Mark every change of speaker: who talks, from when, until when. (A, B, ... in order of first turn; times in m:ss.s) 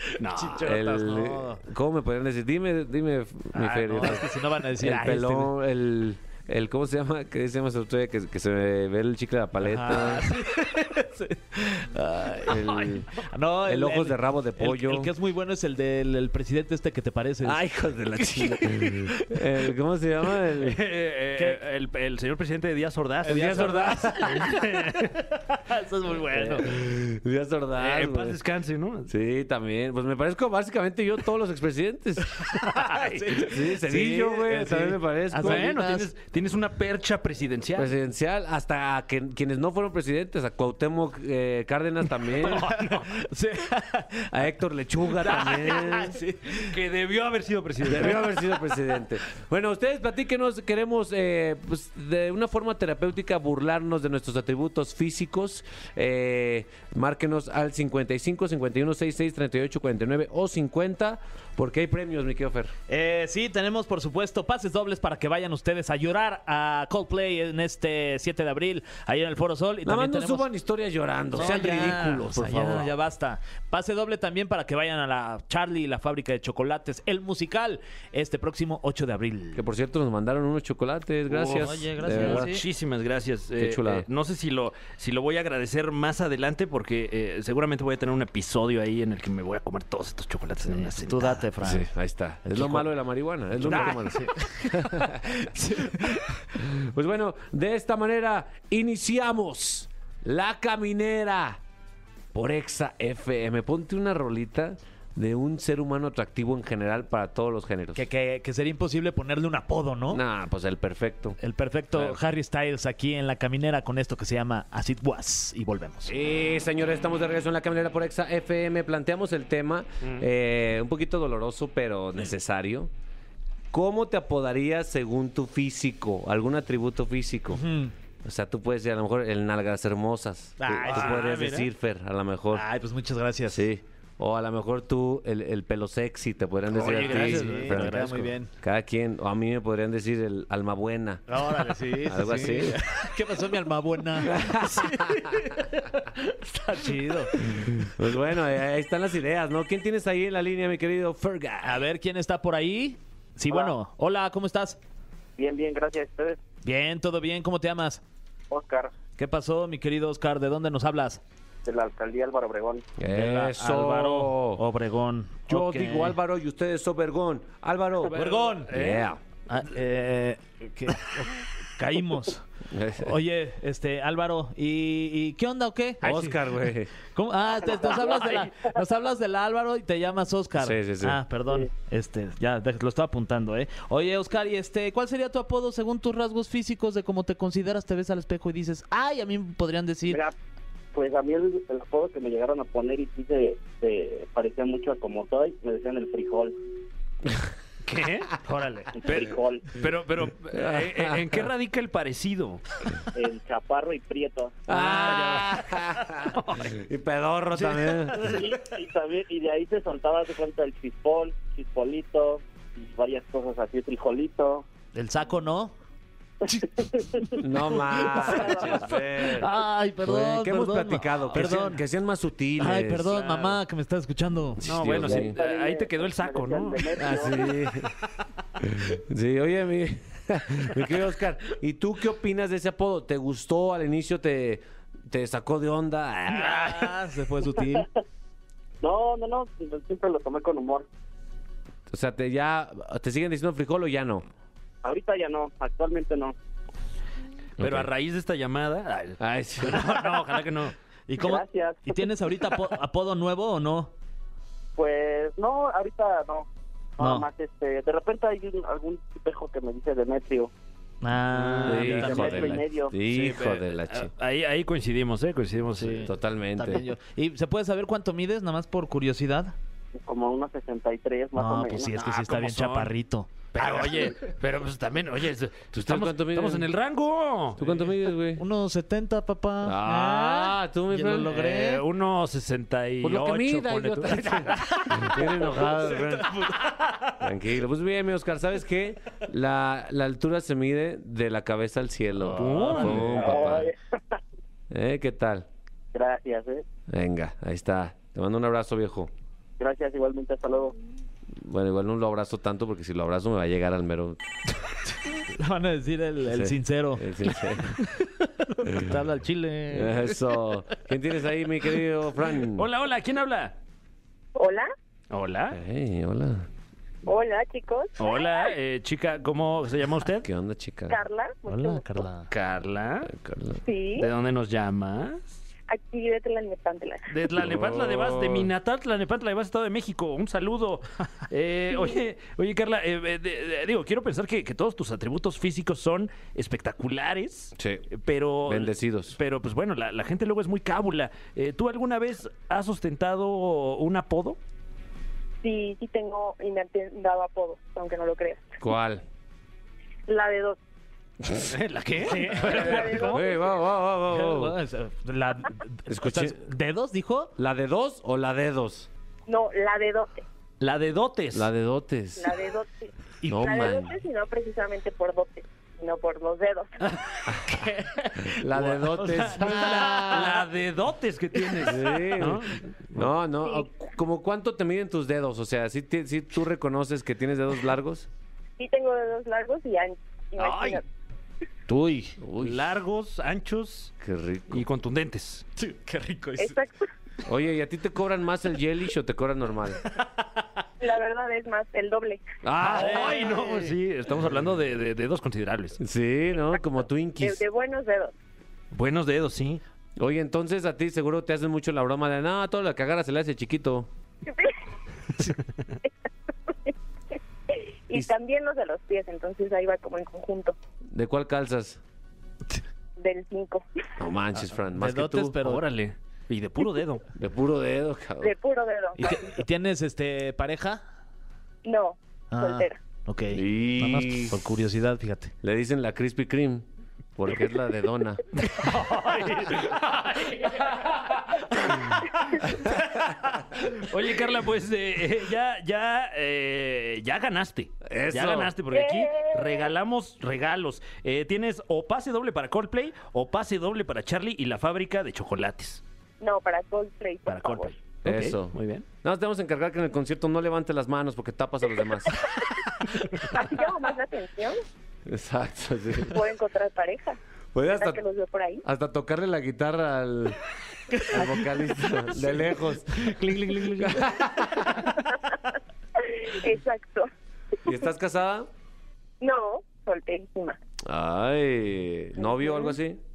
0:00.2-0:00.7 A
0:00.2-0:01.6 B
0:00.6-0:10.3 C
0:03.5-0:05.5 B
0:09.6-0:12.6 B
0:12.4-0:13.1 C
0:12.6-0:12.9 A
0:13.2-0:17.6 B
0:13.6-0:15.1 C
0:17.4-0:20.8 C
0:18.4-0:19.4 B
0:20.6-0:25.4 A
0:23.2-0:24.2 B
0:23.3-0:24.6 C
0:25.7-0:26.7 B
0:26.3-0:28.4 C
0:27.8-0:29.1 A
0:29.1-0:32.6 C
0:32.6-0:33.6 A
0:32.8-0:36.1 B
0:33.3-0:35.8 C
0:35.4-0:37.9 A
0:37.8-0:42.7 C
0:42.4-0:43.1 A
0:42.5-0:44.3 B
0:44.3-0:46.2 C
0:45.2-0:46.7 B
0:46.6-0:48.3 A
0:47.8-1:02.7 C
1:02.9-1:10.5 B
1:09.8-1:12.9 C
1:11.3-1:19.6 B
1:19.6-1:22.5 C
1:21.3-1:31.5 A
1:21.6-1:22.6 B
1:23.6-1:24.1 C
1:30.6-1:31.9 B
1:31.6-1:35.4 C
1:32.6-1:32.8 A
1:33.6-1:34.5 A
1:33.8-1:36.4 B
1:36.6-1:41.6 C
1:42.3-1:48.0 C
1:48.0-1:50.2 B
1:50.1-1:51.4 C
1:51.4-1:56.1 B
1:51.9-1:52.2 C
1:56.1-2:02.9 C
2:03.7-2:07.6 C
2:07.5-2:07.9 B
2:08.2-2:12.7 C
2:10.6-2:11.6 B
2:10.9-2:11.6 A
2:12.5-2:13.6 B
2:13.5-2:22.8 C
2:16.7-2:18.5 B
2:16.7-2:18.0 A
2:21.3-2:27.9 B
2:24.2-2:25.2 C
2:27.5-2:31.8 C
2:31.6-2:34.8 B
2:35.4-2:36.4 D
2:36.6-2:38.0 B
2:38.5-2:38.9 D
2:39.2-2:41.2 B
2:41.6-2:42.8 D
2:43.0-2:44.6 C
2:43.1-2:46.2 B
2:45.5-2:49.2 C
2:48.1-2:48.7 B
2:48.1-2:49.1 A
2:49.5-2:52.4 B
2:52.7-2:53.2 C
2:53.0-2:56.4 B
2:56.0-2:56.9 C
2:57.1-3:10.2 B
2:57.6-2:58.7 D
3:00.6-3:01.2 C
3:10.1-3:10.3 D
3:10.9-3:16.6 D
3:17.8-3:22.6 A
3:19.0-3:19.8 D
3:20.5-3:21.3 C
3:23.1-3:24.6 D
3:24.7-3:28.5 C
3:24.7-3:25.6 A
3:26.2-3:26.8 A
3:28.2-3:34.6 D
3:35.0-3:35.7 B
3:36.5-3:37.4 D
3:37.4-3:39.5 C
3:37.9-3:41.8 B
3:38.0-3:38.8 D
3:40.0-3:43.2 C
3:42.6-3:44.6 B
3:43.1-3:43.6 A
3:44.6-3:45.4 C
3:44.6-3:47.2 A
3:45.0-3:47.5 D
3:47.0-3:47.9 C
3:48.6-3:57.0 C
3:56.3-3:57.9 B
3:58.8-4:00.9 D
4:01.9-4:04.2 C
4:04.8-4:06.3 D
4:07.6-4:07.9 C
4:07.6-4:10.7 A
4:09.2-4:10.2 C
4:11.1-4:13.9 B
4:11.2-4:12.1 D
4:14.8-4:20.5 D
4:17.0-4:17.3 B
4:21.0-4:22.6 B
4:21.3-4:22.4 A
4:21.6-4:24.1 C
4:22.0-4:22.9 D
4:23.0-4:26.1 A
4:25.8-4:29.6 B
4:25.9-4:26.8 C
4:30.0-4:32.0 D
4:31.4-4:34.2 B
4:32.0-4:32.9 A
4:33.5-4:38.0 A
4:35.7-4:36.7 C
4:37.6-4:38.4 C
4:38.4-4:41.8 B
4:39.6-4:41.3 C
4:41.3-4:45.1 A
4:43.0-4:46.4 C
4:44.8-4:47.2 B
4:47.2-4:53.7 C
4:52.2-4:53.6 B
4:52.4-4:53.5 A
4:53.2-4:53.8 D
4:54.7-4:55.5 C
4:55.9-4:56.6 D
4:56.9-4:59.1 C
4:59.6-5:00.8 D
5:01.4-5:04.2 C
5:05.1-5:07.1 B
5:06.3-5:07.8 C
5:07.8-5:10.1 B
5:08.7-5:08.9 C
5:09.7-5:12.7 C
5:12.5-5:13.5 A
5:14.4-5:14.7 E
5:15.1-5:15.6 A
5:15.5-5:16.5 C
5:17.1-5:18.5 E
5:18.0-5:20.3 A
5:20.2-5:21.0 C
5:20.9-5:22.0 E
5:21.5-5:22.3 B
5:22.3-5:23.1 A
5:23.0-5:23.6 C
5:23.6-5:24.1 E
5:24.0-5:25.4 A
5:25.7-5:27.1 E
5:27.1-5:44.4 A
5:27.3-5:28.5 C
5:37.6-5:37.8 C
5:38.5-5:39.2 C
5:45.4-5:48.5 E
5:48.6-5:49.0 C
5:50.1-5:50.6 E
5:51.5-5:53.2 A
5:52.0-5:53.1 B
5:52.3-5:53.4 E
5:52.4-5:54.6 C
5:54.1-5:57.3 B
5:55.9-5:56.4 C
5:57.4-5:58.9 C
5:59.3-6:00.2 E
6:00.6-6:01.5 A
6:01.3-6:02.3 C
6:02.2-6:06.7 E
6:03.2-6:04.0 C
6:07.3-6:07.6 C
6:07.6-6:08.1 B
6:08.2-6:10.4 C
6:08.5-6:13.1 A
6:09.4-6:10.2 B
6:11.6-6:18.1 C
6:18.6-6:20.8 E
6:20.4-6:20.8 A
6:21.7-6:22.2 B
6:22.2-6:22.7 C
6:22.4-6:23.9 A
6:24.0-6:24.6 C
6:24.5-6:25.4 A
6:25.6-6:26.6 B
6:26.4-6:26.8 E
6:27.2-6:29.8 C
6:30.8-6:32.2 E
6:32.4-6:33.5 C
6:32.6-6:35.8 A
6:32.6-6:33.7 B
6:35.8-6:37.4 C
6:37.2-6:38.1 E
6:38.7-6:39.6 A
6:40.0-6:43.9 C
6:44.3-6:44.5 E
6:47.5-6:50.6 E
6:50.9-6:51.8 C
6:53.0-6:53.6 E
6:54.0-6:55.4 C
6:54.4-6:55.6 B
6:55.4-6:57.0 A
6:57.2-6:58.3 C
6:58.2-6:59.4 E
6:59.0-7:00.8 B
7:01.6-7:02.8 E
7:02.3-7:05.3 B
7:03.3-7:04.4 C
7:05.4-7:08.2 C
7:08.4-7:12.7 A
7:13.5-7:25.8 A
7:17.8-7:18.6 C
7:18.7-7:19.7 E
7:26.2-7:27.7 E
7:27.3-7:28.8 A
7:28.0-7:32.2 C
7:33.3-7:34.6 E
7:35.1-7:36.2 C
7:36.1-7:37.2 E
7:37.6-7:38.0 C
7:37.7-7:38.6 E
7:38.6-7:40.4 C
7:41.0-7:45.1 C
7:46.0-7:47.1 E
7:47.6-7:48.5 C
7:49.2-7:50.6 E
7:50.8-7:53.0 C
7:52.2-7:52.8 E